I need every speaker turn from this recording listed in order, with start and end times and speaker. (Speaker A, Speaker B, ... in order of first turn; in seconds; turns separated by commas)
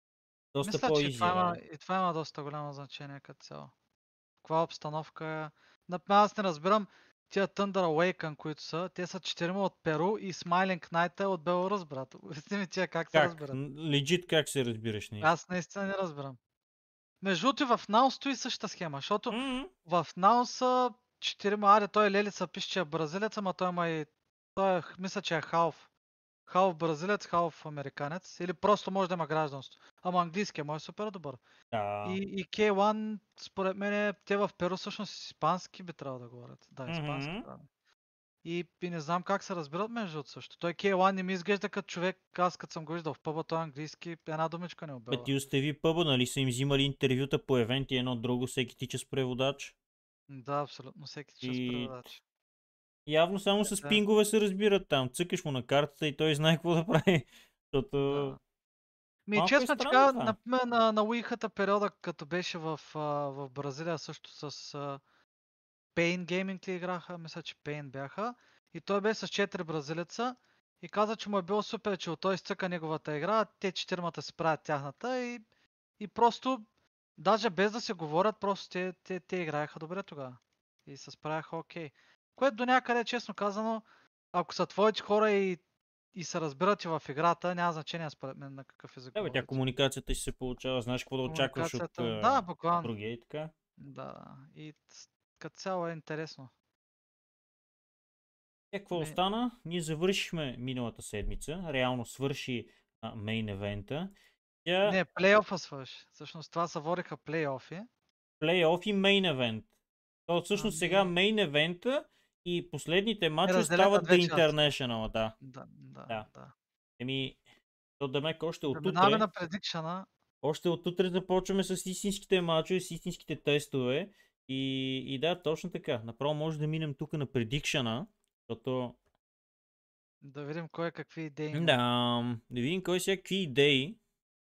Speaker A: 0.5-1.6, Speaker B: 0.6-3.7, Speaker B: 4.4-13.6, Speaker A: 13.1-15.3, Speaker B: 15.2-16.4, Speaker B: 17.2-25.9, Speaker A: 19.3-19.7, Speaker B: 26.5-31.4, Speaker A: 31.7-32.2, Speaker B: 32.0-37.6, Speaker A: 36.9-37.5, Speaker B: 38.4-45.3, Speaker A: 45.1-49.7, Speaker B: 50.3-52.2, Speaker A: 51.4-52.0, Speaker A: 53.1-58.4, Speaker B: 53.6-54.0, Speaker B: 58.0-58.4, Speaker B: 59.3-65.0, Speaker A: 59.4-60.4, Speaker B: 66.0-75.4, Speaker B: 76.0-76.7, Speaker B: 77.2-85.6, Speaker B: 86.1-89.6, Speaker A: 89.2-93.5, Speaker B: 91.3-92.9, Speaker B: 93.8-96.5, Speaker A: 98.7-104.1, Speaker B: 98.9-99.2, Speaker A: 104.7-105.0, Speaker B: 104.8-107.9, Speaker A: 108.4-109.7, Speaker A: 110.3-115.3, Speaker B: 110.5-111.1, Speaker B: 113.5-114.7, Speaker B: 115.4-116.5, Speaker A: 117.0-117.4, Speaker A: 118.0-119.2, Speaker B: 118.7-120.1, Speaker A: 120.4-129.0, Speaker B: 130.2-131.8, Speaker A: 131.5-134.0